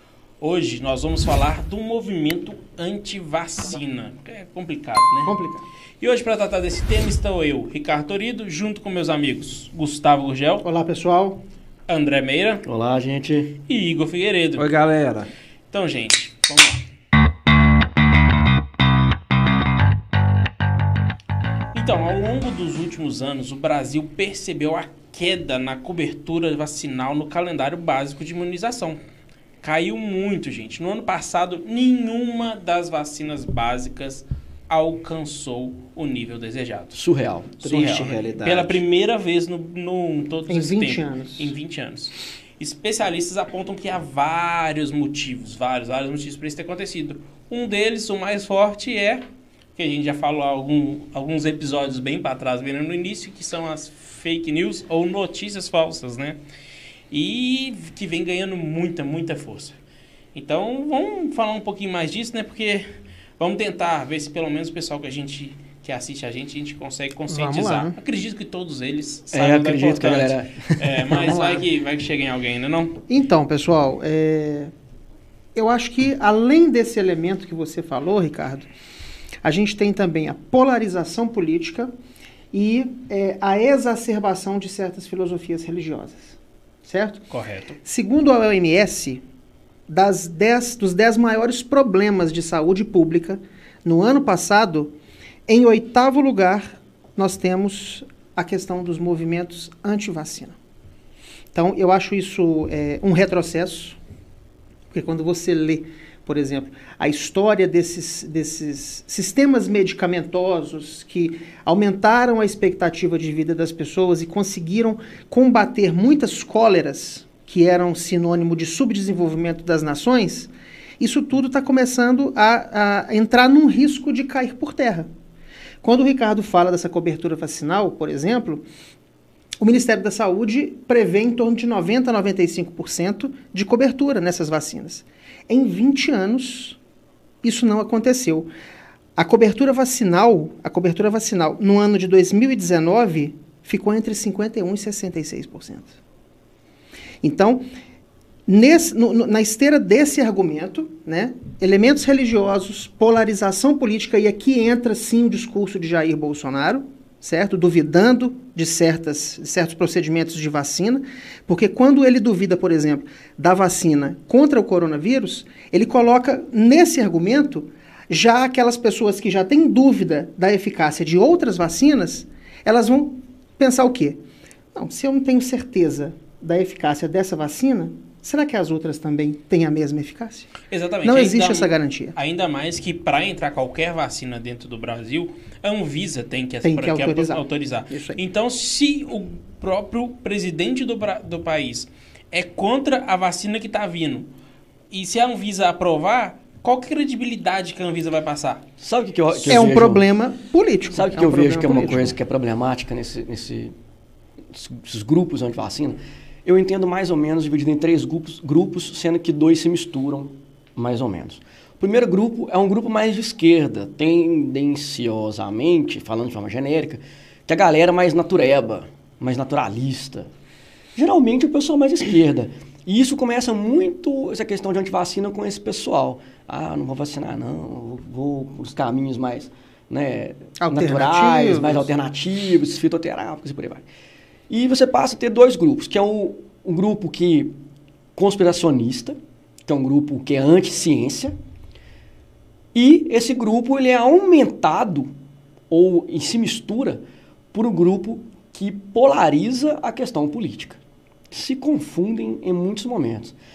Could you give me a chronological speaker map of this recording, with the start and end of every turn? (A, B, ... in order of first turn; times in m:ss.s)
0:00.4-0:05.3 A
0:05.3-0:05.6 B
0:06.0-0:10.6 A
0:10.6-0:11.4 B
0:11.9-0:12.6 A
0:12.7-0:13.5 C
0:13.7-0:14.7 A
0:14.6-0:15.3 D
0:15.7-0:16.8 A
0:21.7-0:29.0 A
0:29.6-0:37.0 A
0:37.0-0:37.6 C
0:37.6-0:38.8 D
0:37.6-0:49.2 A
0:40.5-0:41.5 B
0:49.8-0:56.4 A
0:57.1-0:59.8 A
1:00.3-1:13.0 A
1:07.3-1:08.0 B
1:09.3-1:11.4 C
1:11.2-1:11.6 D
1:13.1-1:14.7 B
1:15.6-1:18.7 B
1:19.4-1:21.9 B
1:22.5-1:27.3 B
1:27.3-1:27.8 A
1:27.8-1:29.2 B
1:29.9-1:34.9 B
1:35.5-1:40.6 B
1:41.5-1:44.0 B
1:44.9-2:05.1 B
2:05.8-2:08.7 B
2:09.6-2:16.8 B
2:17.4-2:18.5 B
2:19.2-2:26.0 B
2:27.2-2:27.6 B
2:28.5-2:54.2 B
2:54.7-3:00.5 B
3:00.7-3:14.3 A
3:01.0-3:02.2 B
3:06.6-3:08.2 B
3:14.9-3:18.6 A
3:18.8-3:20.0 C
3:19.5-3:22.2 B
3:20.9-3:23.7 C
3:24.5-3:40.3 C
3:41.0-3:53.8 C
3:50.6-3:51.9 B
3:54.5-3:57.5 C
3:58.2-4:01.4 C
4:02.7-4:05.1 C
4:05.7-4:07.0 C
4:07.5-4:10.8 C
4:11.3-4:13.3 C